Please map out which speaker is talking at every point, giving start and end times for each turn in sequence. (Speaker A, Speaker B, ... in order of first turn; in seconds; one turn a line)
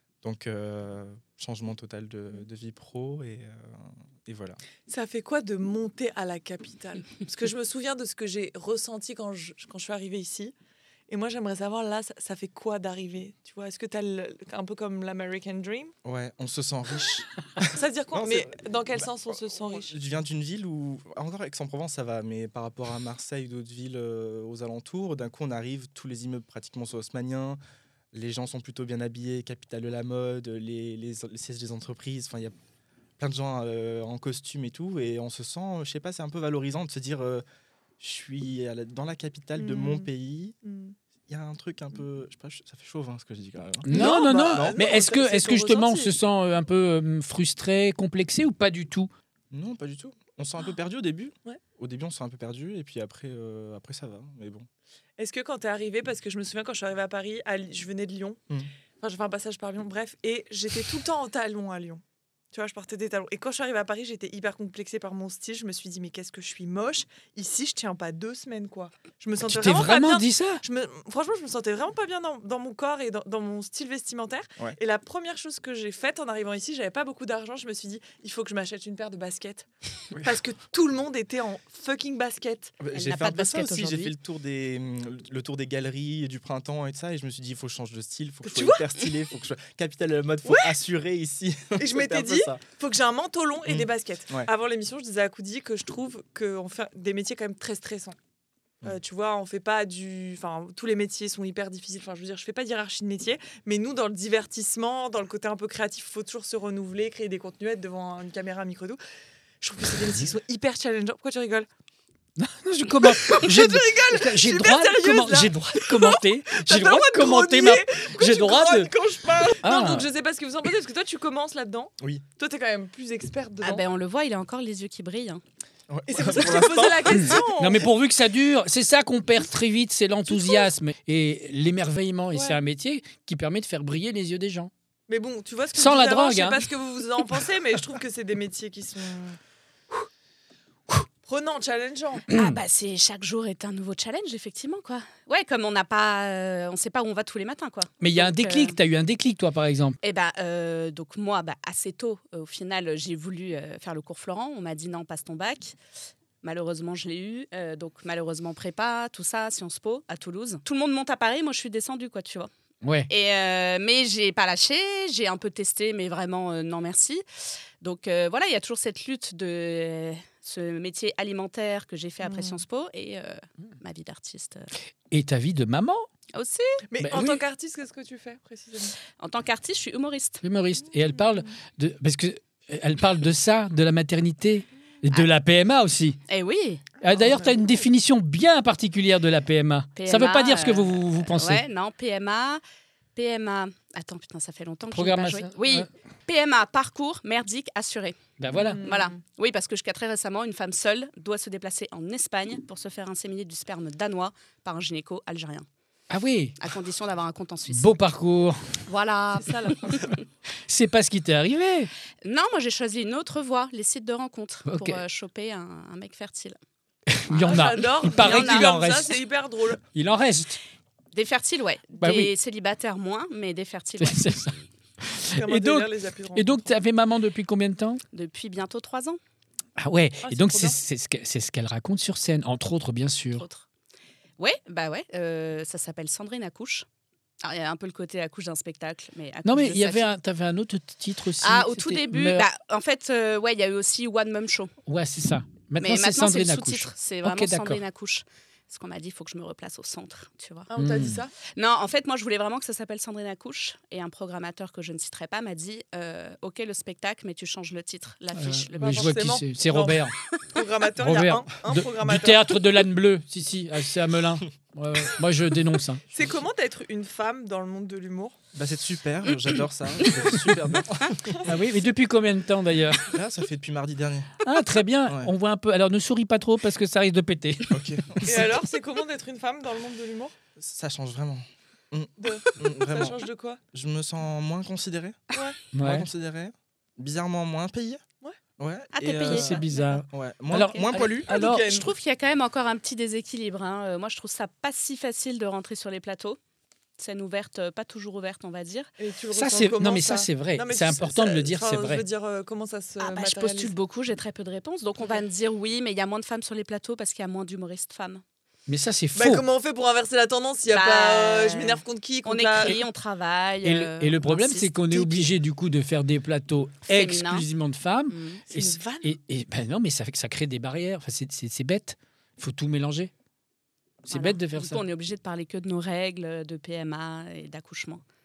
Speaker A: 0.2-4.6
Speaker B: 4.9-10.5
Speaker B: 11.1-15.9
Speaker A: 16.0-27.6
Speaker B: 17.7-19.9
Speaker A: 28.1-32.5
Speaker A: 33.2-37.4
Speaker A: 38.0-40.5
Speaker B: 39.6-40.1
Speaker B: 40.6-40.9
Speaker A: 41.3-44.8
Speaker C: 43.9-49.1
Speaker B: 43.9-46.1
Speaker A: 49.5-54.7
Speaker B: 55.2-58.4
Speaker B: 59.0-82.7
Speaker C: 69.4-70.6
Speaker A: 82.8-92.6
Speaker D: 82.9-84.1
Speaker B: 88.4-88.9
Speaker B: 90.4-90.8
Speaker B: 91.8-98.2
Speaker A: 93.7-94.5
Speaker B: 98.8-109.0
Speaker B: 109.6-111.7
Speaker C: 112.4-118.9
Speaker B: 113.0-123.8
Speaker C: 119.6-120.1
Speaker D: 123.6-125.4
Speaker A: 125.9-127.4
Speaker B: 126.1-127.9
Speaker C: 127.1-134.7
Speaker B: 135.1-139.4
Speaker C: 135.8-136.6
Speaker B: 141.3-142.3
Speaker C: 142.3-142.6
Speaker D: 142.3-148.8
Speaker C: 148.0-150.0
Speaker D: 150.0-155.8
Speaker D: 156.4-162.5
Speaker C: 162.8-163.1
Speaker D: 163.1-167.2
Speaker D: 167.8-174.7
Speaker B: 172.2-172.6
Speaker C: 175.1-176.1
Speaker D: 176.3-176.8
Speaker B: 176.9-178.9
Speaker C: 177.0-177.4
Speaker D: 179.2-180.4
Speaker C: 180.4-186.2
Speaker D: 186.3-186.9
Speaker C: 187.0-191.6
Speaker B: 187.1-187.5
Speaker D: 189.9-192.6
Speaker D: 193.1-205.7
Speaker C: 194.9-195.9
Speaker C: 198.4-198.8
Speaker B: 198.5-199.1
Speaker C: 206.1-206.6
Speaker D: 206.6-207.9
Speaker C: 207.7-208.6
Speaker D: 208.9-210.1
Speaker B: 209.4-210.0
Speaker C: 210.7-211.9
Speaker D: 212.2-216.6
Speaker C: 214.7-215.0
Speaker C: 217.1-219.2
Speaker D: 217.3-218.7
Speaker B: 217.5-219.8
Speaker C: 219.9-220.6
Speaker D: 221.1-224.2
Speaker C: 222.0-222.3
Speaker C: 224.0-228.0
Speaker B: 225.3-226.7
Speaker D: 228.1-229.2
Speaker C: 229.8-233.4
Speaker B: 230.2-230.8
Speaker D: 233.3-233.7
Speaker D: 234.4-236.8
Speaker D: 237.4-240.1
Speaker C: 239.4-242.5
Speaker D: 241.4-244.7
Speaker C: 244.8-247.8
Speaker D: 245.8-250.7
Speaker B: 250.7-251.3
Speaker C: 250.8-251.2
Speaker D: 251.5-259.2
Speaker C: 258.3-260.1
Speaker B: 258.8-262.6
Speaker C: 261.0-266.0
Speaker B: 266.1-268.4
Speaker A: 268.5-271.5
Speaker C: 271.4-273.1
Speaker A: 273.1-274.3
Speaker C: 274.4-277.8
Speaker A: 277.7-278.5
Speaker B: 278.2-280.3
Speaker A: 280.6-283.2
Speaker B: 282.2-283.6
Speaker A: 283.7-285.2
Speaker B: 285.3-285.6
Speaker C: 285.7-286.1
Speaker A: 285.8-288.0
Speaker A: 288.6-291.3
Speaker D: 288.9-290.0
Speaker C: 289.2-291.7
Speaker B: 291.3-291.9
Speaker D: 291.3-296.4
Speaker D: 297.0-298.9
Speaker B: 299.0-303.7
Speaker C: 299.3-302.0
Speaker D: 303.0-308.2
Speaker C: 308.7-309.4
Speaker B: 309.1-312.9
Speaker D: 310.7-315.3
Speaker C: 313.6-323.1
Speaker D: 316.9-317.5
Speaker D: 318.1-318.4
Speaker B: 318.5-319.1
Speaker C: 324.0-324.8
Speaker D: 324.1-328.0